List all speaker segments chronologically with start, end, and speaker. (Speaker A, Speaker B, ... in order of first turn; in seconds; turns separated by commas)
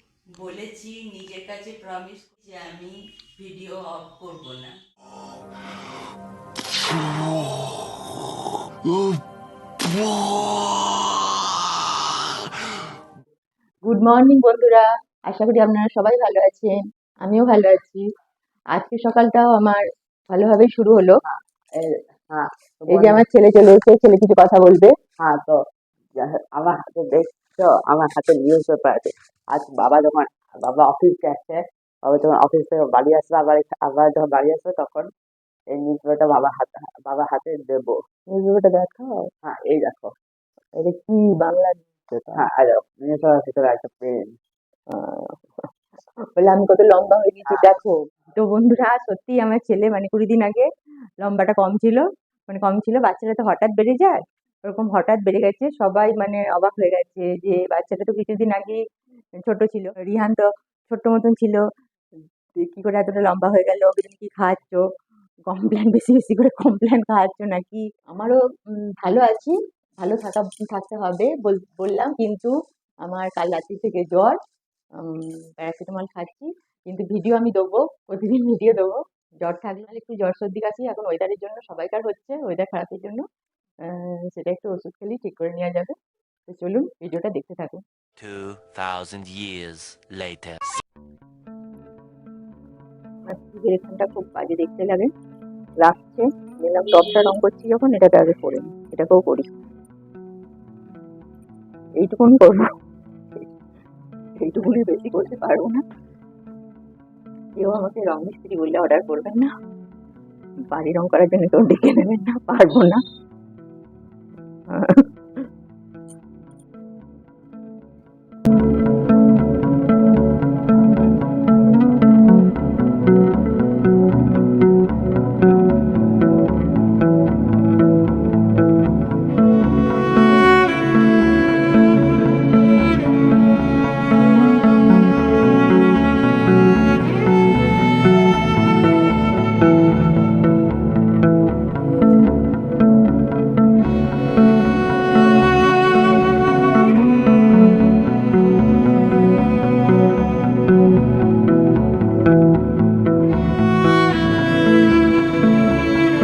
Speaker A: 0.3-4.8, Speaker B: 13.9-18.1, Speaker B: 18.7-21.2, Speaker C: 21.3-23.2, Speaker B: 22.9-24.9, Speaker C: 25.2-25.6, Speaker C: 26.2-35.1, Speaker C: 35.7-37.9, Speaker B: 38.3-39.3, Speaker C: 39.4-40.1, Speaker B: 40.8-42.5, Speaker C: 42.4-44.3, Speaker B: 44.9-45.7, Speaker B: 46.4-50.7, Speaker B: 51.2-58.8, Speaker B: 59.4-61.6, Speaker B: 62.6-64.8, Speaker B: 65.5-74.4, Speaker B: 75.0-83.3, Speaker B: 83.8-86.0, Speaker B: 86.5-87.8, Speaker D: 88.2-90.6, Speaker B: 93.3-95.1, Speaker B: 95.8-99.5, Speaker B: 102.0-102.7, Speaker B: 104.4-105.8, Speaker B: 107.6-109.5, Speaker B: 110.7-113.0, Speaker B: 114.7-115.1